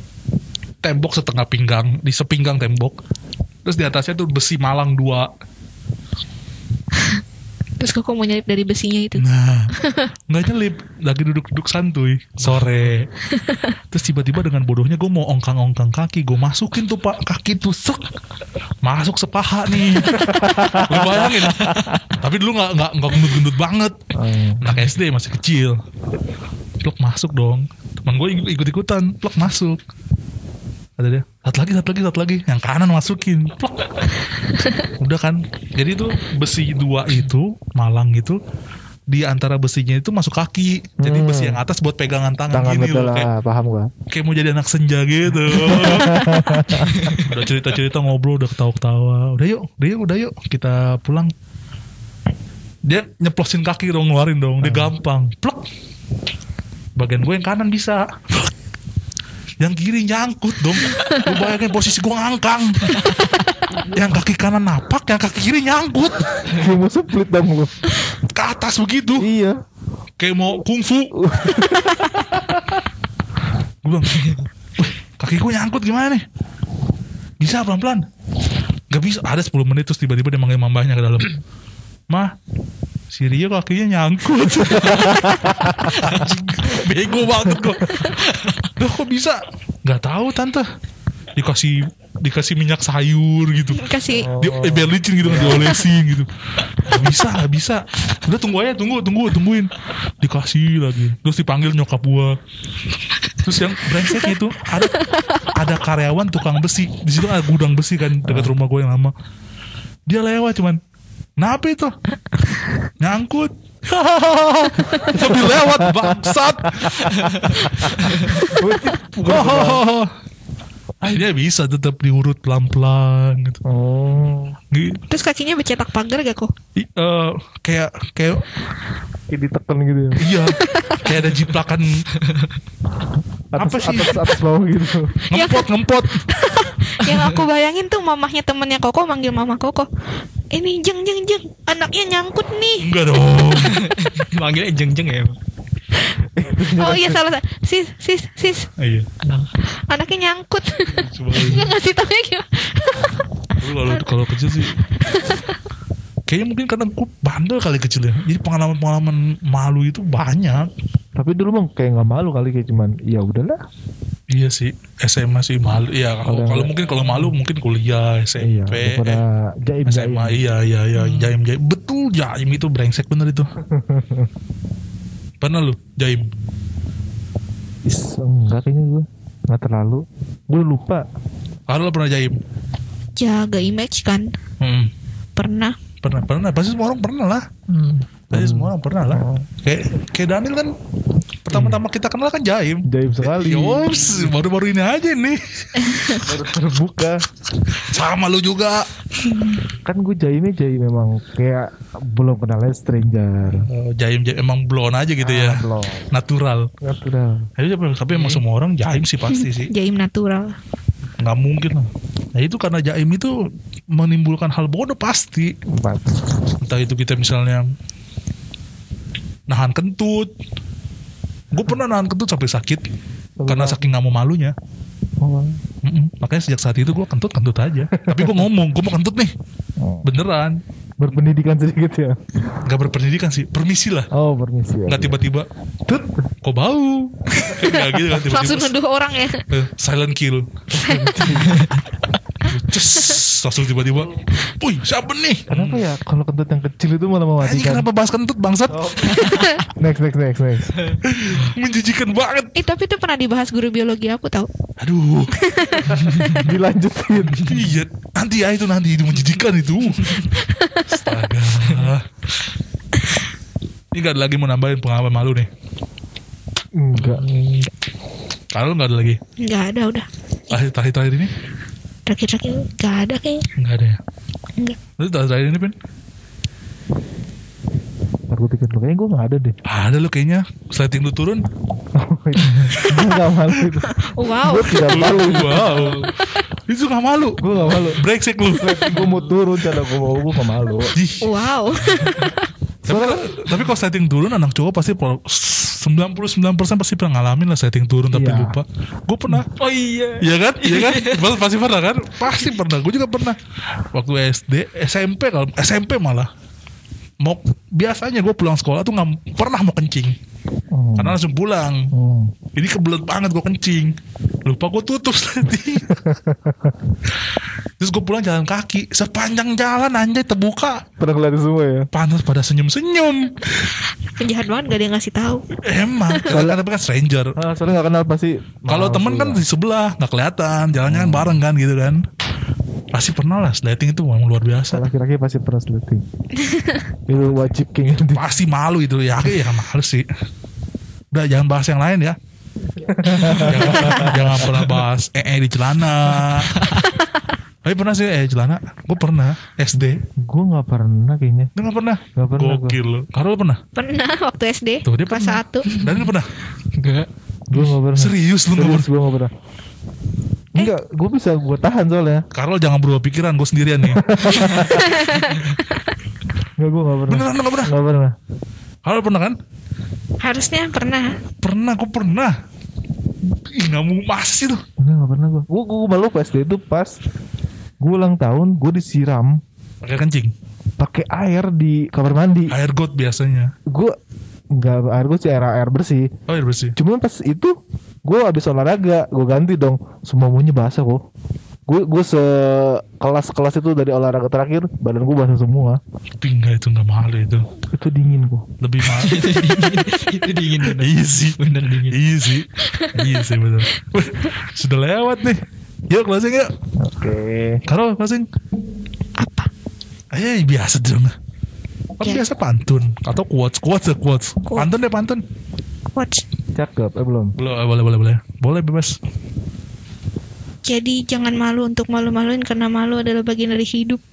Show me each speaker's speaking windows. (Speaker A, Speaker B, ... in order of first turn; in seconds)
Speaker A: 0.8-3.0, 3.6-5.3, 9.2-9.7, 10.3-13.1, 13.9-18.0, 18.8-23.9, 24.6-25.8, 26.8-29.8, 31.0-34.1, 35.0-38.4, 39.1-43.3, 44.1-51.3, 52.9-55.6, 57.0-58.5, 59.6-63.0, 63.9-66.4, 68.3-69.3, 70.2-71.1, 73.8-76.2, 77.4-78.1, 78.9-81.4, 83.1-88.2, 88.7-90.7, 91.4-96.3, 96.8-102.4, 103.4-109.1, 110.1-110.8, 111.4-111.9, 113.0-118.6, 119.2-120.1, 121.0-123.6, 124.7-125.0, 126.8-128.5, 130.2-132.1, 133.6-134.2, 135.3-136.2, 142.8-143.8, 148.8-149.1, 150.9-151.7, 153.6-154.8, 156.3-160.7, 164.3-169.2, 169.9-173.5, 175.4-176.3, 181.7-182.4, 184.6-184.9, 186.0-187.5, 188.3-190.7, 191.4-195.8, 197.8-198.9, 203.5-206.7, 207.6-209.7, 211.2-213.3, 213.9-215.5, 216.6-217.7, 219.5-220.3, 221.5-222.8, 223.5-224.6, 225.8-229.3, 230.0-230.6, 232.6-234.1, 234.9-235.5, 236.4-238.8, 239.5-240.5, 242.5-245.8, 247.4-249.3, 251.0-252.6, 254.8-255.4, 257.4-260.3, 260.9-262.1, 263.9-265.5, 268.5-269.2, 270.5-271.3, 273.6-274.0, 275.0-275.8, 279.7-281.5, 282.5-283.2, 284.9-286.1, 286.7-288.9, 290.9-291.3, 292.9-299.6, 300.2-303.4, 303.9-306.3, 307.2-310.2, 311.0-311.9, 312.6-313.9, 314.5-315.9, 317.8-320.8, 321.9-323.4, 325.6-327.4, 328.7-332.0, 332.9-334.9, 337.9-340.1, 341.1-342.2, 343.2-346.6, 347.6-350.0, 351.6-353.6, 354.8-356.3, 357.6-358.9, 362.3-364.1, 367.1-367.7, 368.9-369.4, 371.4-372.3, 373.4-374.6, 379.8-380.3, 382.5-383.5, 386.3-386.8, 396.2-397.5, 398.6-399.3, 400.6-401.4, 401.9-406.5, 407.7-408.3, 410.1-411.1, 411.9-415.2, 417.4-419.0
Speaker B: 7.8-9.3, 9.8-10.1, 13.3-13.7, 93.7-94.3, 125.1-126.5, 130.6-131.1, 135.3-135.7, 136.3-139.9, 140.5-142.9, 146.7-148.7, 149.9-154.2, 154.9-155.5, 183.2-184.3, 185.4-185.8, 195.8-196.2, 199.2-199.6, 209.3-210.6, 237.4-239.4, 240.8-241.2, 249.2-249.6, 252.6-254.5, 255.4-256.4, 260.4-261.0, 269.4-270.6, 272.1-273.5, 283.8-285.1, 291.2-292.5, 324.1-325.4, 336.4-336.8, 353.8-355.7, 364.6-365.6, 370.2-371.2, 402.7-403.2, 409.2-409.5, 415.9-416.2, 420.6-424.0
Speaker C: 12.4-12.9, 46.9-47.3, 84.8-85.1, 86.0-86.3, 88.3-88.6, 137.1-137.4, 143.6-145.4, 149.2-149.5, 170.9-171.3, 187.7-188.0, 208.1-208.4, 241.4-241.8, 255.9-256.4, 257.4-257.6, 267.0-267.7, 285.5-286.1, 289.0-289.3, 299.4-301.3, 343.2-343.5, 346.3-346.8, 355.6-356.1, 356.8-357.1, 364.3-365.5, 398.8-402.0
Speaker D: 20.1-22.0, 24.1-24.7, 41.0-41.6, 42.5-43.9, 45.5-47.0, 54.6-54.9, 66.5-67.8, 69.2-69.6, 71.1-72.8, 84.8-85.9, 94.2-95.8, 108.2-108.5, 115.1-119.8, 123.7-124.6, 129.3-130.2, 133.5-135.2, 146.3-147.2, 161.2-163.6, 166.3-167.2, 168.4-170.4, 173.6-174.3, 177.9-181.1, 188.3-189.5, 191.5-191.8, 192.9-194.3, 196.2-197.2, 199.8-203.7, 205.2-206.1, 206.8-207.5, 215.7-216.2, 223.4-223.9, 225.2-225.6, 228.0-228.4, 229.8-230.1, 231.0-232.2, 234.1-235.1, 240.7-241.7, 245.5-247.9, 248.7-250.8, 256.4-257.5, 266.8-267.2, 278.3-279.6, 281.9-285.8, 287.4-290.9, 292.9-293.3, 298.1-298.6, 310.7-311.2, 311.9-312.3, 315.9-316.8, 321.0-321.9, 326.3-326.6, 327.4-329.4, 330.9-331.4, 334.7-336.1, 337.1-338.3, 342.8-344.5, 350.1-351.5, 352.1-352.8, 357.5-359.3, 360.5-362.3, 363.8-364.9, 366.6-368.1, 374.8-377.0, 377.8-379.4, 380.8-382.6, 383.7-384.0, 384.5-386.1, 386.8-387.5, 388.1-391.0, 391.7-395.8, 397.7-398.5, 406.8-407.6, 416.6-417.4